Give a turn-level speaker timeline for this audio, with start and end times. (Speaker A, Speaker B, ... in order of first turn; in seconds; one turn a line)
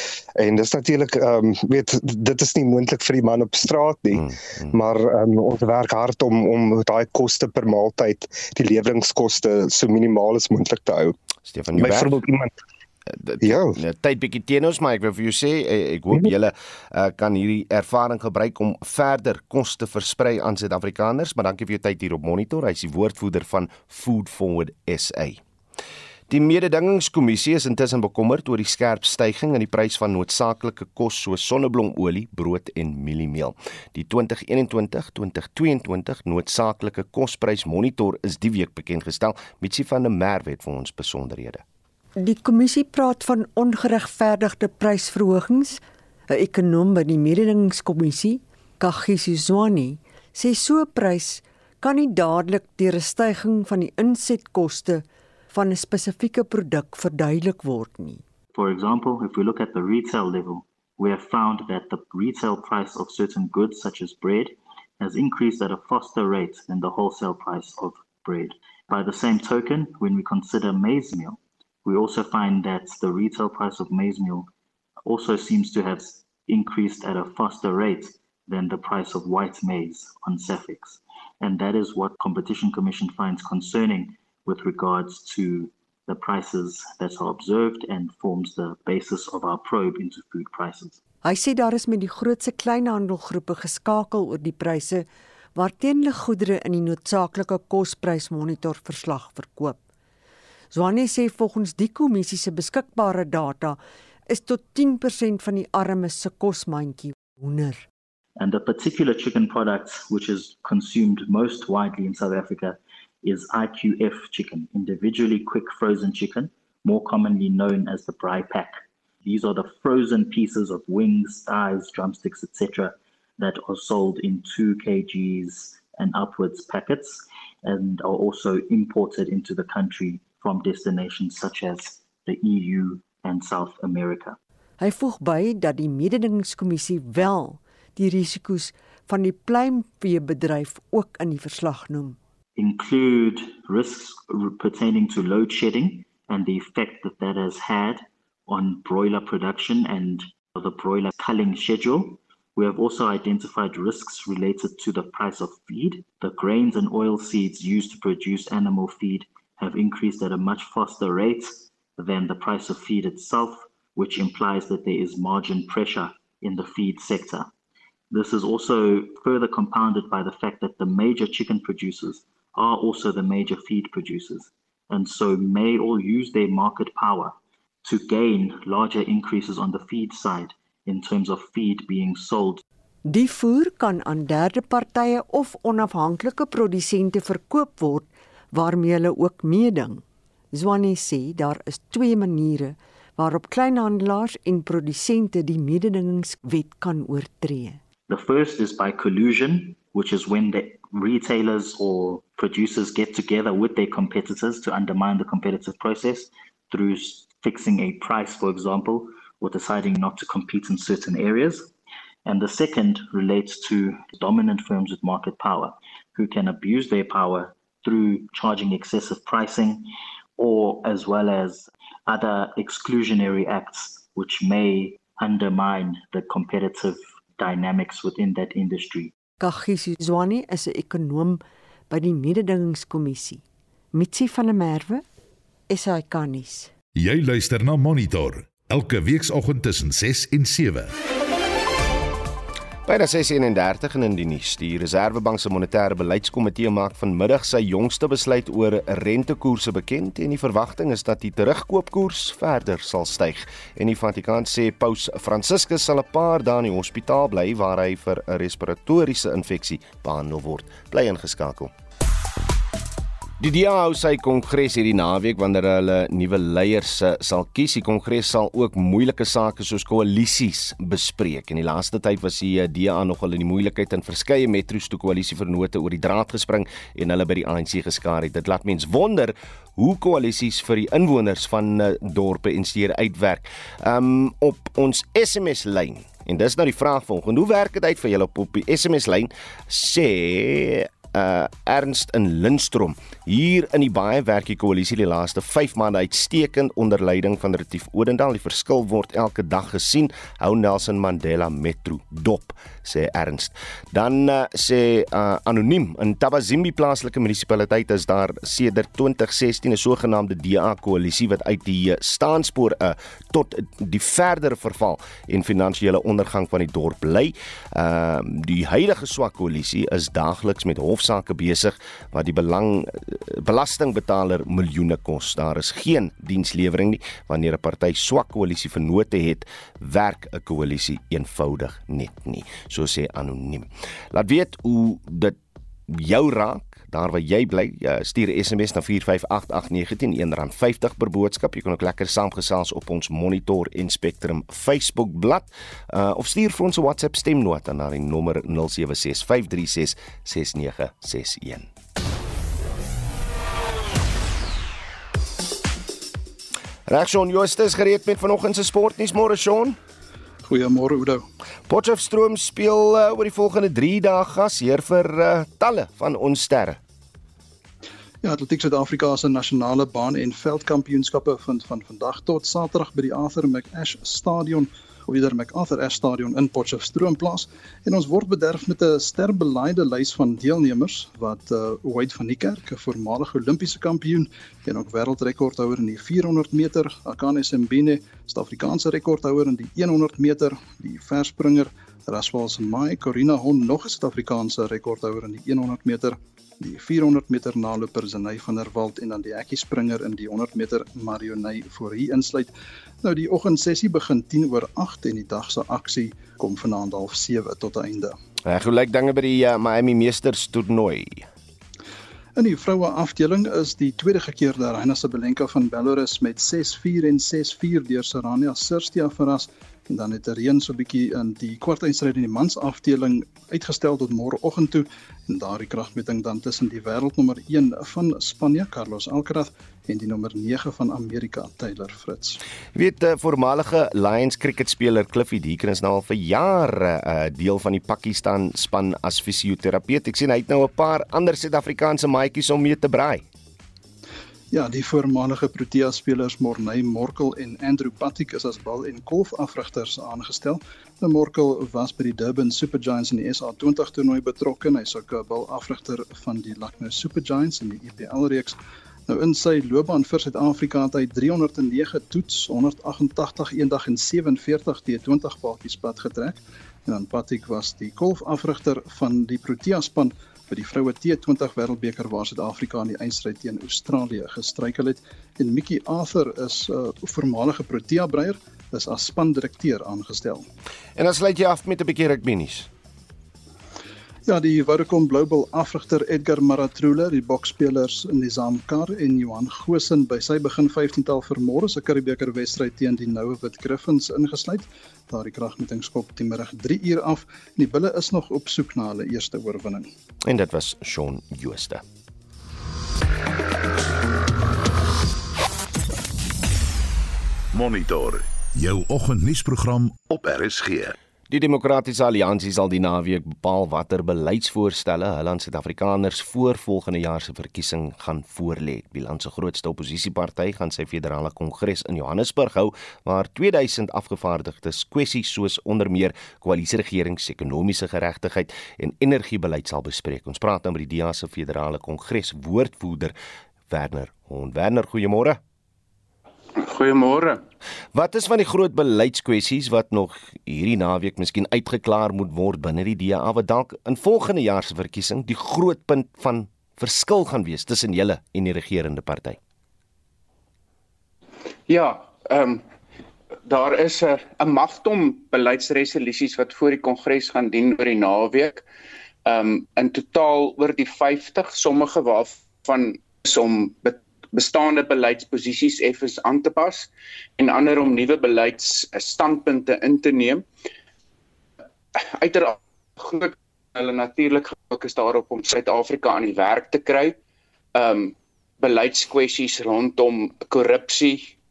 Speaker A: 0.4-11.2
Speaker B: 4.1-4.8
Speaker B: 11.5-12.2
Speaker A: 11.8-12.5
Speaker B: 13.1-25.4
Speaker A: 13.4-13.8
Speaker B: 26.3-41.6
Speaker C: 42.2-58.2
Speaker D: 58.5-74.5
Speaker D: 75.1-91.0
Speaker C: 91.2-99.8
Speaker C: 100.7-107.9
Speaker D: 108.4-118.7
Speaker D: 119.2-134.4
Speaker C: 134.8-142.2
Speaker D: 142.6-167.5
Speaker D: 168.1-177.3
Speaker D: 177.8-182.6
Speaker C: 183.1-197.8
Speaker D: 198.1-211.7
Speaker D: 212.3-229.1
Speaker C: 229.4-235.0
Speaker C: 235.7-236.7
Speaker E: 237.0-240.9
Speaker B: 242.8-261.7
Speaker B: 263.4-335.4
Speaker B: 335.9-351.7
Speaker B: 356.9-359.8
Speaker F: 360.4-361.2
Speaker B: 361.7-366.8
Speaker F: 368.2-408.2
Speaker B: 408.4-411.3
Speaker F: 412.4-432.4
Speaker B: 432.8-443.3
Speaker F: 444.5-480.5
Speaker B: 481.0-482.7
Speaker F: 484.3-499.9
Speaker B: 500.2-501.8
Speaker E: 507.5-511.0
Speaker B: 511.3-533.1
Speaker B: 533.7-535.4
Speaker G: 536.6-537.4
Speaker B: 537.9-549.4
Speaker G: 551.7-552.6
Speaker G: 553.5-558.6
Speaker G: 559.3-570.4
Speaker G: 572.0-577.1
Speaker G: 577.8-581.3